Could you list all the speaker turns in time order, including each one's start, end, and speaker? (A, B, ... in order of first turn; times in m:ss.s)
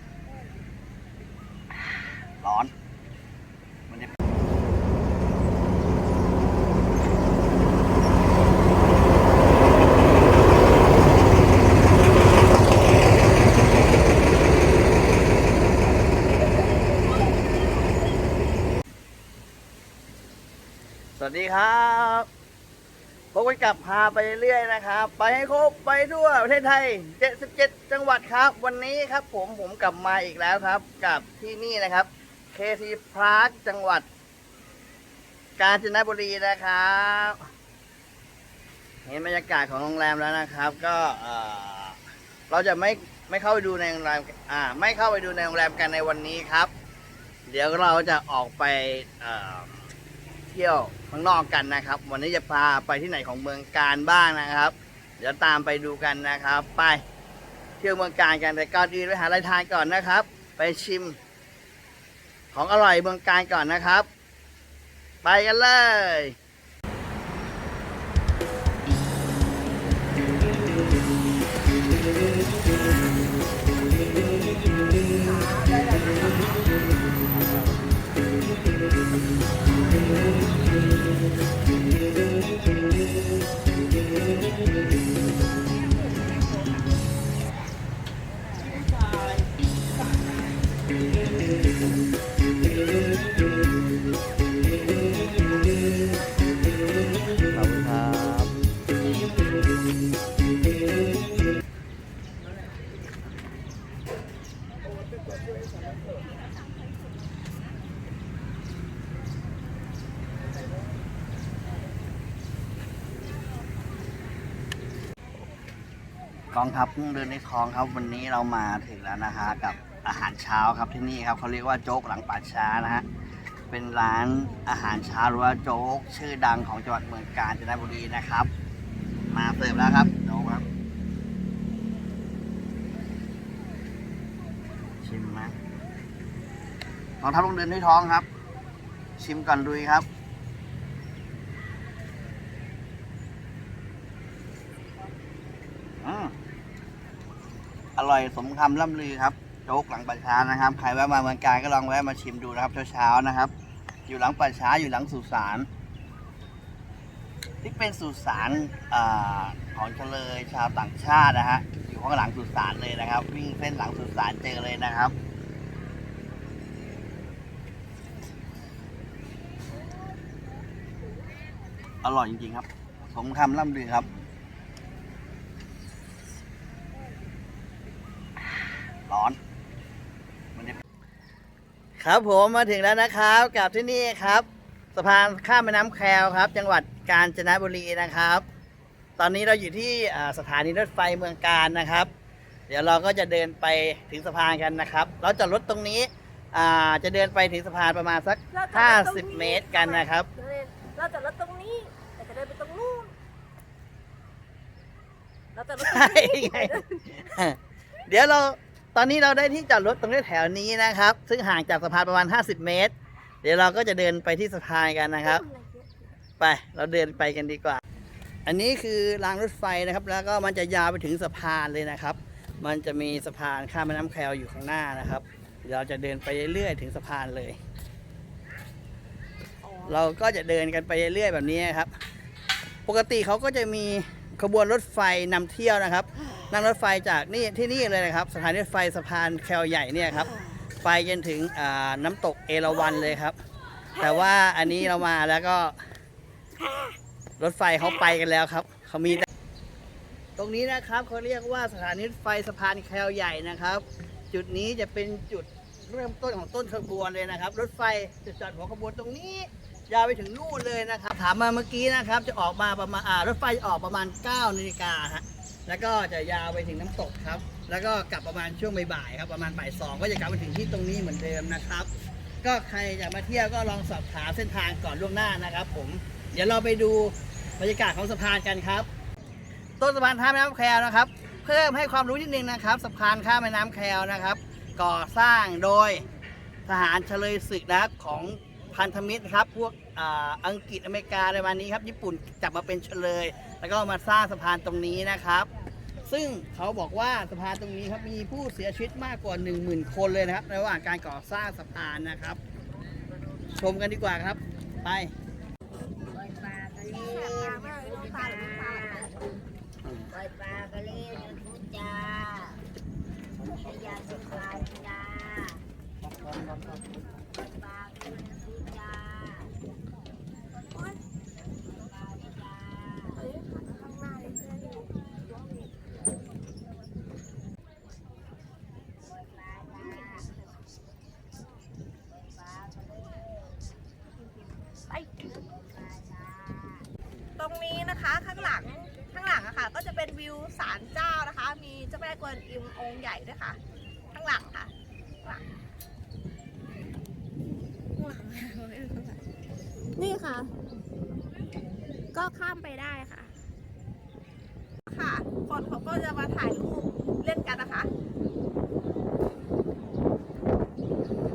0:02.4-0:02.7 A
0:21.2-0:22.3 A
0:23.3-0:34.1 A
0:35.6-0:37.4 A
0:39.0-0:42.0 A
0:42.5-0:46.7 A
0:47.5-0:49.8 A
0:50.5-0:57.0 A
0:57.8-1:01.2 A
1:02.5-1:04.1 A
1:05.2-1:06.4 A
1:15.7-1:16.3 B
1:28.7-1:29.2 A
1:37.5-1:38.5 A
1:56.5-2:03.0 A
2:03.7-2:08.5 A
2:09.3-2:10.6 A
2:15.0-2:15.6 A
2:17.2-2:18.3 A
2:19.2-2:20.1 A
2:26.0-2:26.3 A
2:28.0-2:33.5 A
2:34.1-2:35.7 A
2:37.6-2:45.1 A
2:52.0-2:54.1 A
2:59.0-2:59.4 A
3:02.0-3:08.4 A
3:09.2-3:12.1 A
3:12.7-3:20.3 A
3:18.5-3:23.1 C
3:25.5-3:27.2 C
3:25.8-3:35.4 A
3:35.2-3:36.1 C
3:36.4-3:37.8 A
3:38.4-3:47.6 A
3:49.8-3:51.9 A
3:52.8-4:03.4 A
4:04.0-4:05.8 A
4:07.4-4:09.3 A
4:10.4-4:31.9 A
4:32.4-4:38.9 A
4:39.8-4:46.0 A
4:46.6-4:55.5 A
4:56.0-5:02.4 A
5:03.5-5:05.1 A
5:06.1-5:09.1 B
5:06.9-5:09.2 C
5:09.8-5:10.2 A
5:10.1-5:12.6 B
5:13.5-5:15.6 B
5:17.3-5:19.5 B
5:20.7-5:21.0 C
5:21.8-5:23.2 B
5:23.1-5:25.6 C
5:29.1-5:30.3 B
5:30.0-5:30.3 C
5:32.1-5:33.5 B
5:34.9-5:35.3 C
5:35.4-5:36.8 B
5:37.4-5:43.6 C
5:44.1-5:44.7 C
5:48.0-5:49.2 C
5:50.0-5:50.5 C
5:52.1-5:53.3 C
5:54.9-5:57.9 C